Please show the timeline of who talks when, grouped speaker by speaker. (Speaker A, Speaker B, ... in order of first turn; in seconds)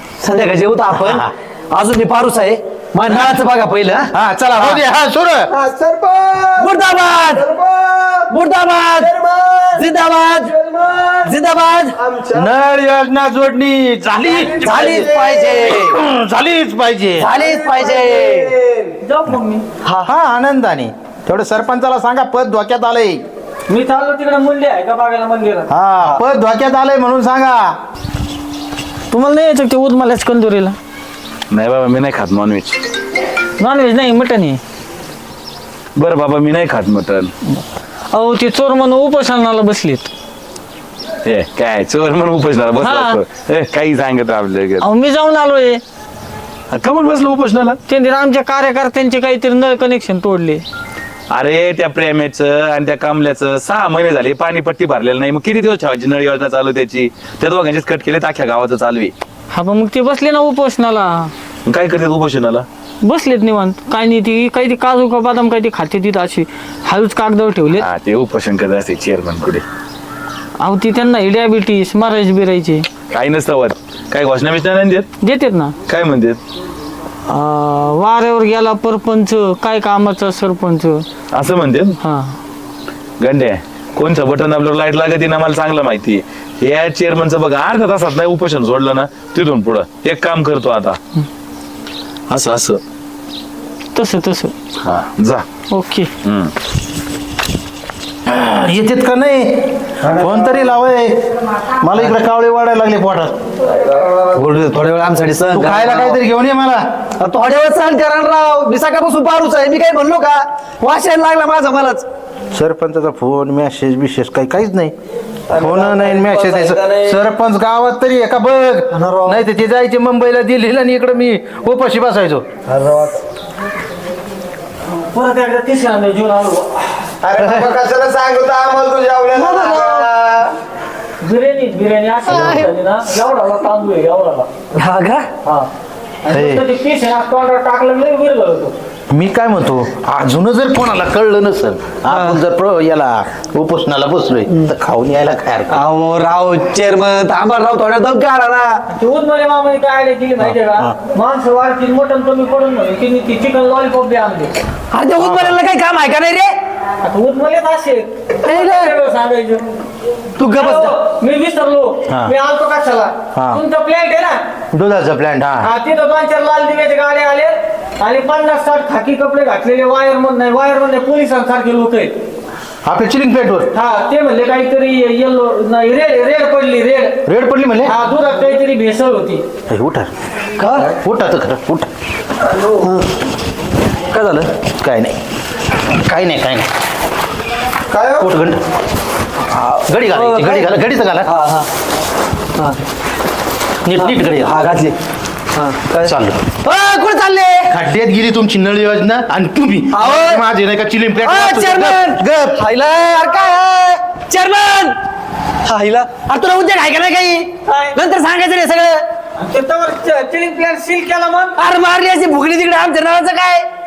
Speaker A: 0.2-4.1, 6.6-7.5, 8.3-9.1, 9.8-10.5, 11.2-11.9, 14.6-15.9, 17.2-18.5, 104.3-106.2, 107.2-112.0, 118.9-119.4, 129.3-130.1, 132.3-132.7, 134.7-135.3, 142.1-142.4, 145.7-148.8, 154.9-156.6, 158.4-158.9, 160.4-160.9, 180.6-180.9, 182.8-183.0, 184.1-184.5, 189.6-190.7, 191.2-191.7, 193.9-194.9, 195.5-196.1, 196.6-197.7, 199.9-200.4, 201.2-205.0, 205.6-209.0, 211.6-213.7
Speaker B: 0.9-1.3, 4.1-5.5, 12.3-14.9, 15.8-17.3, 20.0-23.2, 25.7-27.7, 98.2-103.4, 105.5-106.8, 112.5-114.9, 115.5-122.4, 127.3-127.7, 136.3-136.6, 139.1-145.8, 150.4-150.9, 155.2-155.6, 162.1-162.3, 163.3-163.6, 164.7-165.7, 172.8-173.7, 177.2-177.9, 179.7-180.1, 180.9-181.9, 184.8-185.2, 185.9-186.7, 188.2-188.6, 189.7-191.3, 193.8-194.6, 196.0-196.4, 197.7-202.6
Speaker C: 5.5-8.3, 8.9-11.4, 11.9-12.5, 14.2-15.8, 17.3-19.0, 103.7-104.4, 115.5-117.2, 122.7-123.2, 127.2-130.5, 182.5-182.8, 187.9-188.3
Speaker D: 19.0-19.6, 23.7-25.7, 29.1-30.8, 33.6-34.6, 38.1-40.1, 42.8-43.2, 44.8-45.8, 47.9-50.6, 59.5-61.3, 63.0-67.9, 70.6-72.8, 75.2-75.7, 77.3-81.0, 82.0-82.3, 93.9-94.5, 95.7-96.1, 125.1-126.8, 131.2-134.5, 136.2-138.7, 148.9-154.5, 157.0-159.6, 160.5-164.4, 165.6-172.1, 173.7-177.2, 177.8-179.4, 207.7-208.0, 209.4-211.6
Speaker E: 31.5-32.8, 36.0-37.3, 41.2-44.8, 46.7-47.8, 51.3-59.1, 61.6-62.7, 67.8-69.6, 73.1-75.1, 75.9-76.4, 81.3-82.0, 83.2-91.0, 92.3-92.8, 94.8-95.4, 96.2-96.5